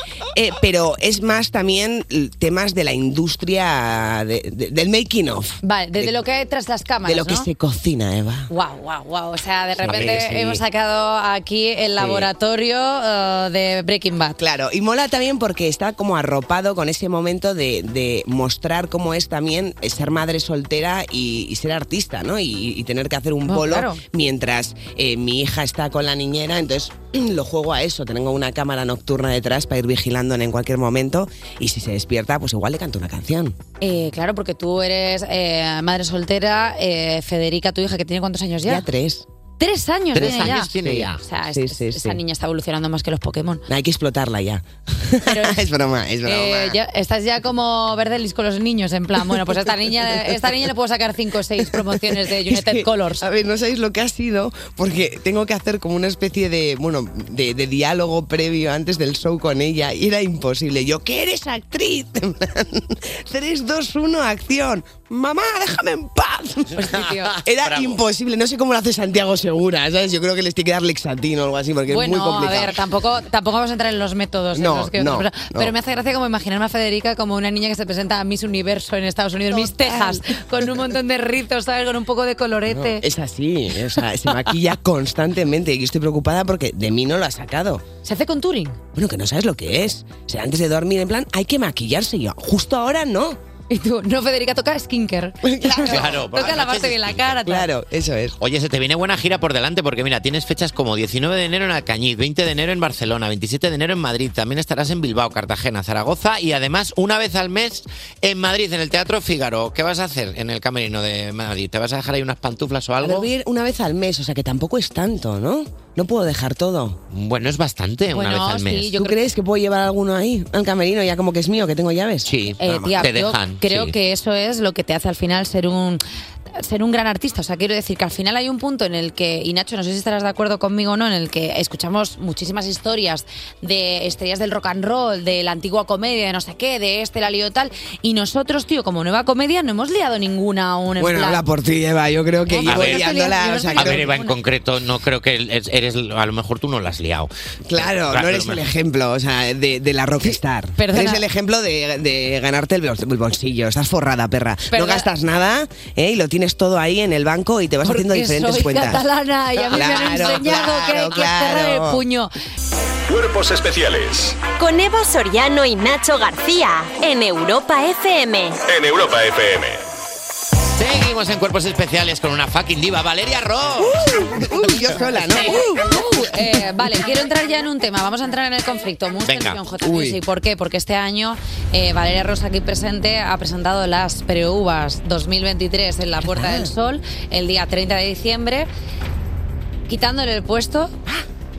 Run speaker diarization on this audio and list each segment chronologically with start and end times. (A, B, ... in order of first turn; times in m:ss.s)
0:00.4-0:06.1 A
0:05.6-0:07.5 B
0:07.0-0:08.5 A
0:08.5-0:14.4 B
0:09.8-0:10.6 A
0:09.9-0:10.3 C
0:12.0-0:12.3 A
0:14.4-0:33.6 A
0:23.5-0:24.0 B
0:33.8-0:38.8 B
0:38.6-0:39.2 A
0:39.6-0:43.6 B
0:40.1-0:41.2 C
0:40.2-0:42.2 A
0:43.7-0:46.8 A
0:45.2-0:45.6 B
0:46.2-0:53.2 B
0:49.2-0:50.5 A
0:51.6-1:06.8 A
1:06.7-1:07.4 B
1:06.9-1:08.0 C
1:07.4-1:12.8 A
1:11.9-1:23.0 B
1:14.5-1:15.7 A
1:19.5-1:20.8 A
1:22.7-1:27.8 A
1:28.0-1:28.8 B
1:28.9-1:33.4 A
1:33.7-1:37.7 B
1:35.4-1:36.0 A
1:35.8-1:37.4 C
1:37.4-1:38.3 A
1:38.4-1:53.3 C
1:53.0-1:57.0 A
1:57.1-1:58.9 C
1:58.1-1:59.2 B
1:58.9-2:03.0 A
2:02.2-2:03.9 C
2:02.6-2:06.0 B
2:06.6-2:21.4 B
2:21.0-2:24.1 A
2:22.5-2:24.4 B
2:22.6-2:23.1 C
2:23.7-2:28.7 C
2:27.7-2:39.0 A
2:30.8-2:31.2 B
2:34.7-2:35.1 B
2:37.8-2:42.3 B
2:39.6-2:42.0 A
2:43.1-2:44.4 D
2:44.6-2:48.6 E
2:48.6-2:49.8 D
2:50.7-2:54.2 C
2:53.8-2:57.0 A
2:55.2-3:08.7 B
2:59.2-2:59.6 C
2:59.8-3:00.2 A
3:06.2-3:06.7 A
3:09.9-3:10.9 B